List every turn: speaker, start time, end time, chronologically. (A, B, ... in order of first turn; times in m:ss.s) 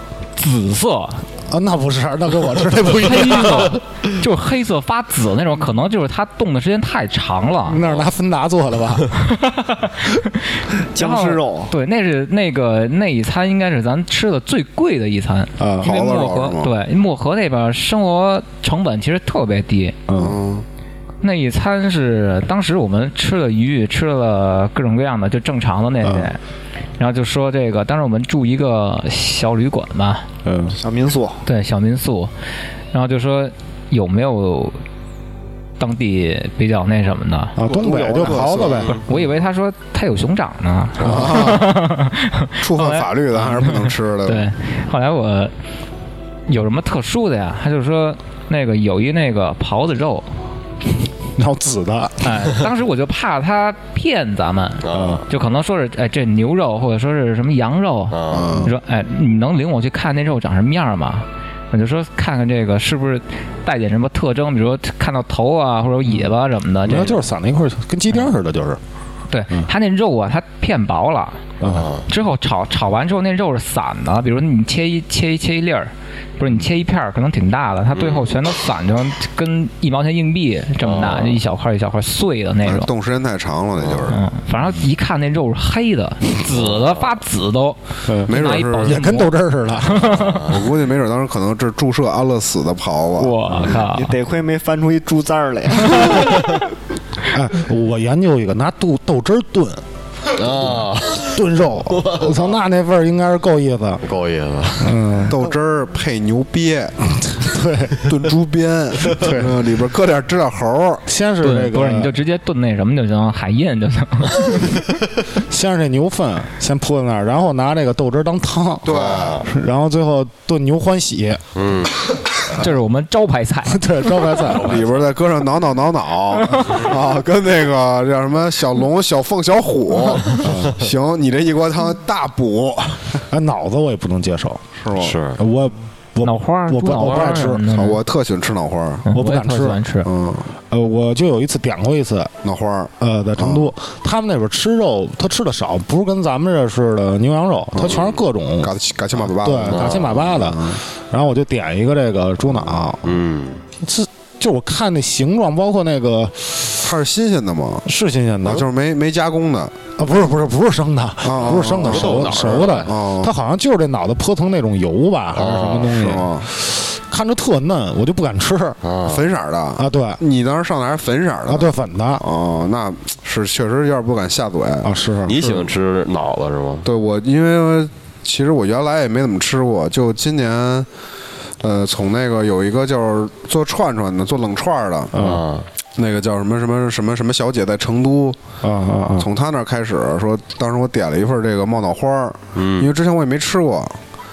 0:00.4-0:01.2 A
0:01.5-0:03.8 B
0:03.0-0:07.8 A
0:07.7-0:09.1 B
0:09.4-0:20.0 A
0:10.9-0:11.7 C
0:15.6-0:16.0 B
0:15.8-0:16.7 D
0:20.1-0:20.4 B
0:20.1-0:20.6 D
0:21.2-0:26.4 A
0:26.0-0:26.3 B
0:27.0-0:30.3 A
0:30.4-0:30.8 B
0:30.8-0:31.4 C
0:31.4-0:32.3 A
0:32.9-0:34.8 A
0:35.8-0:37.6 A
0:37.6-0:39.0 B
0:37.6-0:39.1 D
0:37.8-0:38.9 C
0:39.0-0:45.5 A
0:41.0-0:41.6 B
0:41.0-0:41.8 D
0:42.6-0:44.5 D
0:46.5-0:50.3 A
0:51.3-0:52.5 B
0:52.2-1:07.1 A
0:54.8-0:55.2 E
0:54.9-0:55.2 B
0:58.1-0:58.6 E
0:58.3-0:58.7 D
1:06.9-1:08.8 B
1:09.3-1:11.4 A
1:11.6-1:11.9 B
1:11.6-1:12.0 E
1:12.1-1:22.9 A
1:17.9-1:18.2 E
1:20.8-1:21.4 E
1:22.6-1:24.2 D
1:23.8-1:24.1 E
1:24.1-1:30.4 A
1:26.5-1:27.1 E
1:28.0-1:30.1 B
1:28.3-1:29.1 D
1:30.2-1:30.7 E
1:30.5-1:33.4 D
1:33.2-1:34.1 A
1:33.9-1:36.4 C
1:35.9-1:36.6 A
1:37.3-1:39.8 B
1:40.3-1:42.4 E
1:40.4-1:40.7 B
1:41.2-1:44.0 B
1:44.0-1:45.2 E
1:44.8-1:45.4 B
1:45.3-1:47.1 D
1:47.3-1:48.1 B
1:48.0-1:51.0 D
1:49.0-1:49.7 B
1:51.0-1:52.2 B
1:51.4-1:54.8 A
1:55.5-2:01.4 B
1:58.8-1:59.4 D
1:58.8-1:59.5 E
2:01.5-2:01.9 E
2:02.5-2:03.8 A
2:03.7-2:04.8 B
2:04.4-2:05.0 E
2:04.5-2:13.2 D
2:10.3-2:10.8 B
2:13.3-2:14.6 B
2:14.8-2:15.2 D
2:15.0-2:15.4 E
2:15.4-2:17.6 B
2:16.2-2:18.0 A
2:17.6-2:19.0 D
2:19.0-2:20.1 A
2:19.1-2:19.8 B
2:20.0-2:20.5 D
2:20.7-2:22.3 B
2:22.4-2:23.7 D
2:23.0-2:33.2 B
2:27.7-2:28.0 D
2:27.8-2:28.2 E
2:28.6-2:30.8 D
2:29.6-2:30.2 E
2:33.0-2:33.6 E
2:33.8-2:36.9 B
2:36.8-2:37.8 D
2:37.8-2:38.7 B
2:38.4-2:39.8 D
2:40.0-2:48.8 B
2:41.2-2:43.3 D
2:41.3-2:42.9 E
2:45.3-2:45.9 E
2:45.5-2:46.5 D
2:48.8-2:49.2 E
2:49.0-2:55.7 D
2:49.8-2:50.2 B
2:51.5-2:52.2 B
2:54.8-2:55.4 B
2:55.2-2:56.9 E
2:56.8-3:00.9 D
3:01.6-3:05.1 D
3:05.1-3:05.4 B
3:05.1-3:05.6 E
3:06.0-3:08.4 D
3:08.6-3:09.3 B
3:09.2-3:14.0 D
3:12.5-3:12.9 E